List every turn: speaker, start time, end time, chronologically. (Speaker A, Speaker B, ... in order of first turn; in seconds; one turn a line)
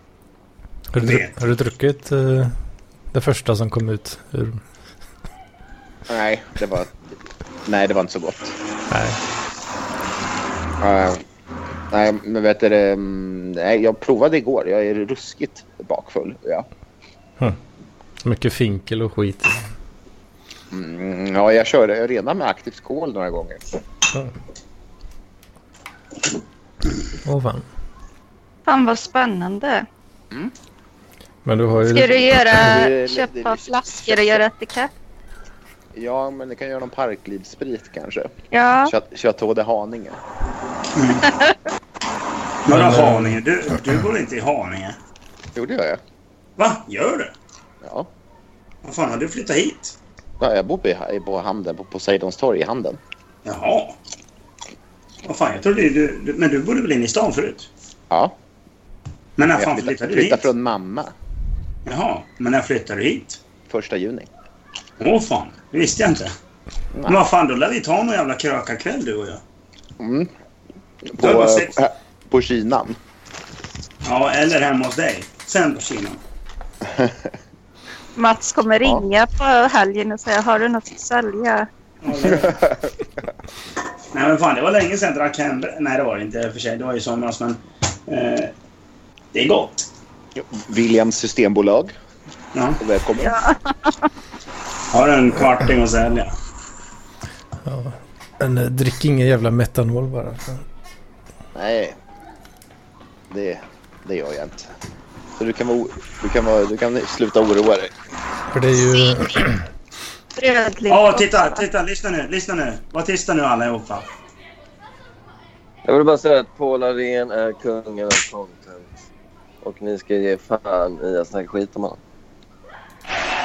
Speaker A: 0.9-2.5
Speaker B: 1.0-1.3
Speaker A: 3.1-4.6
Speaker C: 6.1-8.6
Speaker A: 8.9-9.2
Speaker C: 10.8-11.2
Speaker C: 11.9-16.7
Speaker A: 18.2-19.6
Speaker C: 20.7-23.6
Speaker A: 27.2-27.6
Speaker D: 28.6-29.9
Speaker A: 31.4-32.8
Speaker D: 31.9-34.9
Speaker C: 32.5-34.4
Speaker C: 35.9-40.2
Speaker D: 38.5-38.9
Speaker B: 40.9-41.3
Speaker B: 42.6-45.0
Speaker A: 42.7-43.4
Speaker C: 45.5-46.0
Speaker B: 46.6-47.3
Speaker C: 47.8-48.1
Speaker B: 48.8-50.0
Speaker C: 50.4-53.0
Speaker B: 53.4-54.0
Speaker B: 55.2-57.7
Speaker C: 58.1-58.3
Speaker B: 59.4-60.5
Speaker C: 59.5-61.1
Speaker B: 61.9-63.4
Speaker C: 63.7-64.3
Speaker B: 65.0-66.3
Speaker C: 66.9-67.2
Speaker B: 67.1-69.4
Speaker C: 70.0-70.3
Speaker C: 71.0-73.0
Speaker B: 71.2-71.8
Speaker B: 74.0-76.2
Speaker C: 76.8-77.3
Speaker D: 78.2-81.7
Speaker B: 82.0-82.6
Speaker C: 82.2-83.1
Speaker B: 84.1-88.5
Speaker B: 89.3-89.9
Speaker C: 90.3-91.9
Speaker B: 92.5-92.8
Speaker C: 92.8-93.3
Speaker D: 93.2-94.1
Speaker B: 94.9-96.3
Speaker A: 97.6-100.6
Speaker C: 101.5-102.0
Speaker C: 103.3-104.7
Speaker C: 105.4-107.9
Speaker A: 108.5-109.6
Speaker D: 110.4-111.6
Speaker B: 110.9-114.1
Speaker E: 115.8-119.0
Speaker E: 119.6-122.0